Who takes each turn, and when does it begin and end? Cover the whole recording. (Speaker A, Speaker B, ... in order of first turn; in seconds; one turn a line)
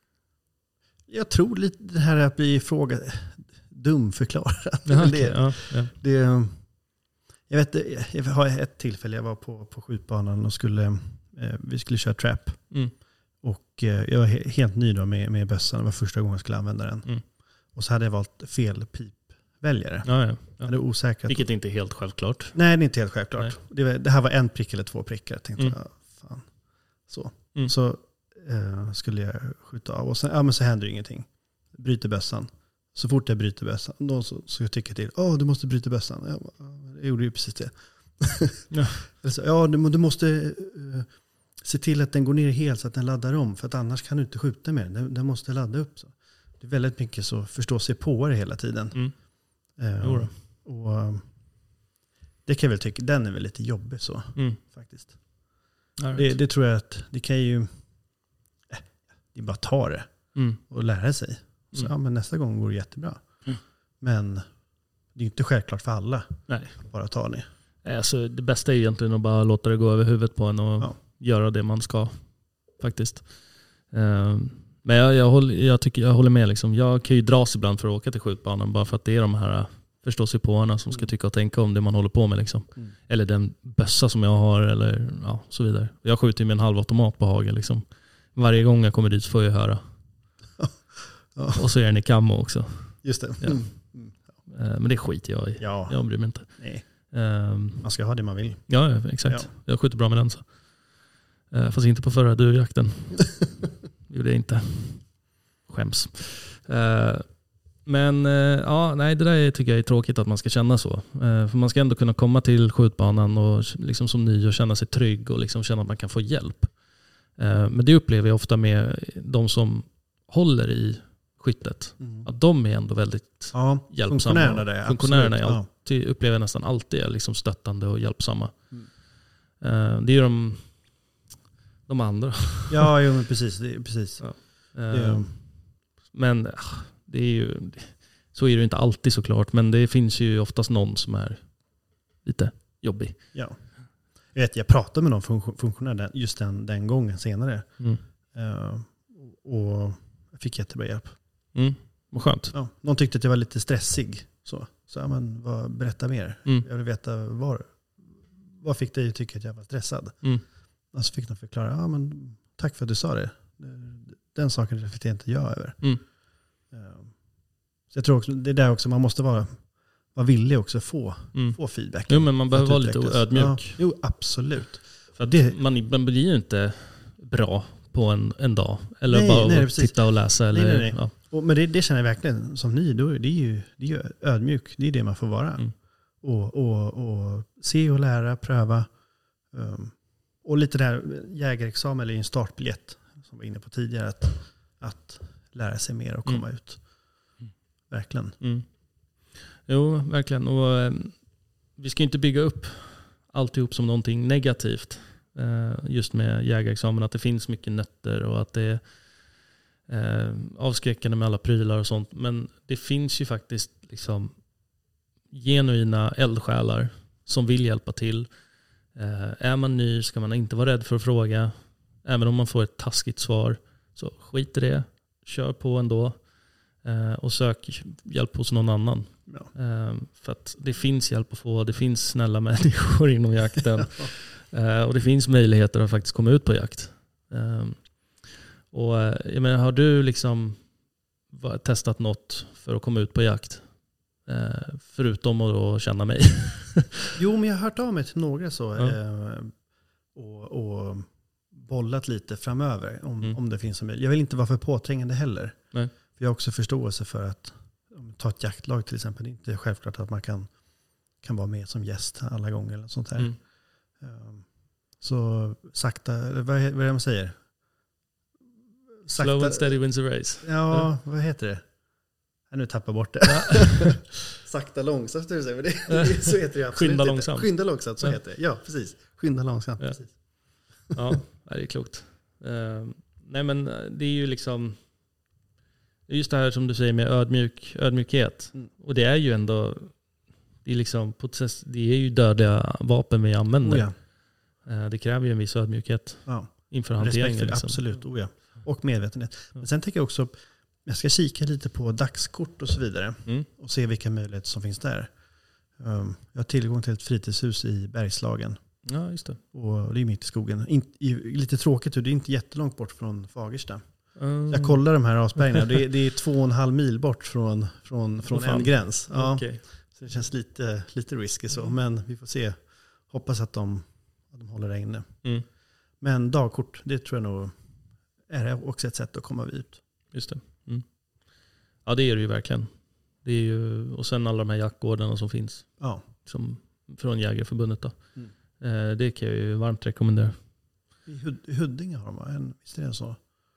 Speaker A: 1.1-21.7
Speaker B: 4.8-5.9
Speaker B: 20.0-23.5
Speaker A: 22.5-51.7
Speaker B: 38.7-39.0
Speaker B: 48.9-50.3
Speaker A: 52.4-67.5
Speaker B: 54.3-55.2
Speaker B: 56.0-56.3
Speaker B: 60.3-60.6
Speaker B: 66.5-66.9
Speaker B: 67.8-90.0
Speaker A: 90.6-91.6
Speaker B: 91.5-131.1
Speaker A: 93.0-94.3
Speaker A: 95.6-97.2
Speaker A: 97.8-99.5
Speaker A: 122.0-122.3
Speaker A: 123.5-125.7
Speaker B: 131.8-132.9
Speaker A: 132.7-135.3
Speaker B: 134.2-143.4
Speaker A: 143.3-151.2
Speaker B: 151.5-152.5
Speaker A: 152.5-175.6
Speaker B: 171.3-174.2
Speaker B: 175.1-181.1
Speaker A: 179.1-198.4
Speaker B: 196.2-246.9
Speaker A: 233.8-234.1
Speaker A: 247.2-267.8
Speaker A: 269.0-280.9
Speaker B: 269.1-270.9
Speaker B: 273.2-273.9
Speaker B: 275.9-278.2
Speaker B: 279.8-285.2
Speaker B: 286.1-298.5
Speaker A: 293.6-293.9
Speaker A: 296.2-330.1
Speaker B: 308.9-309.4
Speaker B: 314.1-315.4
Speaker B: 318.2-319.6
Speaker B: 330.1-340.4
Speaker A: 335.8-336.0
Speaker A: 341.1-343.2